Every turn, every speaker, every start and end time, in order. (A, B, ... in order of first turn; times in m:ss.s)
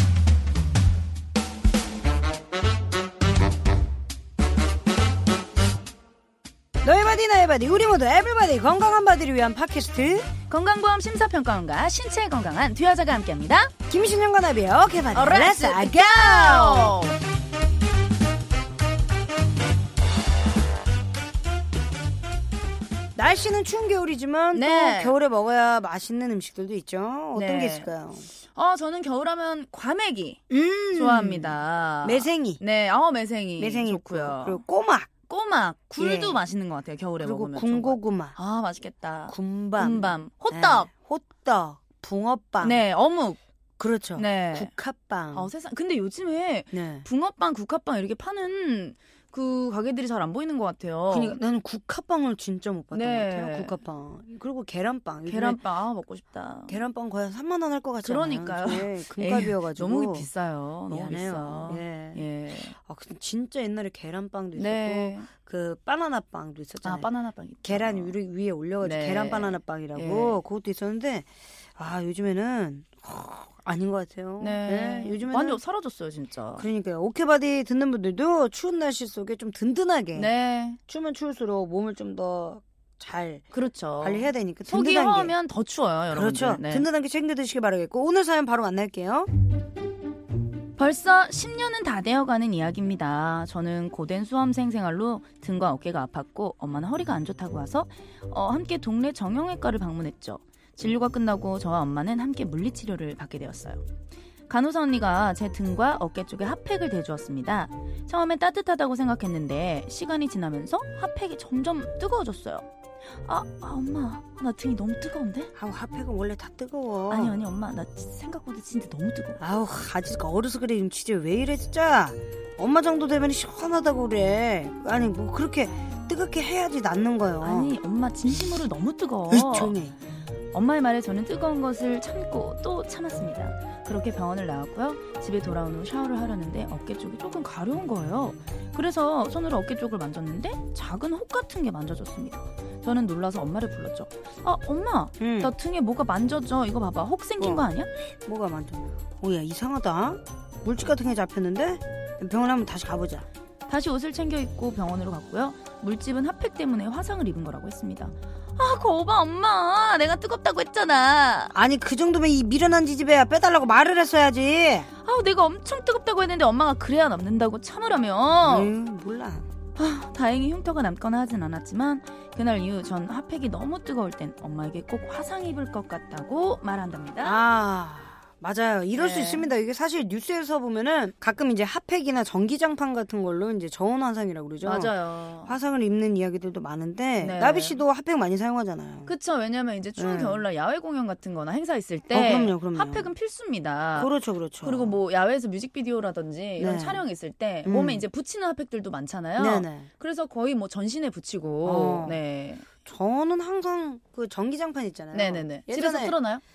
0:06.8-0:10.3 A
0:10.5-0:13.7 B
0:13.9-0:17.0 A
0:15.1-0:17.2 B
0:23.2-0:28.3 A
0:24.5-0:25.2 B
0:27.3-0:27.9 B
0:28.5-0:30.4 B
0:30.5-0:32.6 A
0:30.9-0:34.6 B
0:33.6-0:35.1 A
0:35.3-0:40.9 B
0:36.0-0:36.4 A
0:37.2-0:38.4 A
0:39.3-0:42.8 A
0:42.6-0:43.4 B
0:43.8-0:45.5 A
0:44.2-0:44.7 B
0:45.3-0:51.4 B
0:46.7-0:47.0 A
0:51.1-0:55.6 A
0:52.9-0:53.7 B
0:55.2-0:56.8 B
0:56.7-1:00.3 A
0:58.0-1:02.7 B
1:00.9-1:07.1 A
1:04.5-1:05.3 B
1:06.8-1:08.1 B
1:07.6-1:15.6 A
1:08.8-1:10.4 B
1:14.4-1:16.7 B
1:16.6-1:20.3 A
1:20.1-1:20.8 B
1:20.9-1:23.4 A
1:23.5-1:26.9 B
1:24.0-1:25.3 A
1:26.1-1:29.3 A
1:30.8-1:43.8 B
1:44.5-1:52.7 B
1:53.2-1:55.5 B
1:55.6-1:57.4 A
1:57.1-1:59.4 B
1:59.4-2:07.8 A
2:07.4-2:09.8 B
2:09.3-2:10.0 A
2:10.5-2:27.9 B
2:25.2-2:25.5 A
2:27.4-2:27.7 A
2:28.2-2:33.2 A
2:33.7-2:41.5 B
2:41.5-2:44.9 A
2:45.0-2:48.7 B
2:48.4-2:49.5 A
2:49.7-2:57.4 B
2:57.2-3:09.1 A
2:58.9-2:59.5 B
3:04.6-3:05.6 B
3:07.2-3:07.8 B
3:09.0-3:22.7 B
3:10.0-3:10.4 A
3:12.1-3:13.1 A
3:13.9-3:15.0 A
3:16.6-3:17.0 A
3:17.6-3:18.0 A
3:19.4-3:19.9 A
3:21.6-3:22.2 A
3:22.8-3:26.2 A
3:25.1-3:26.4 B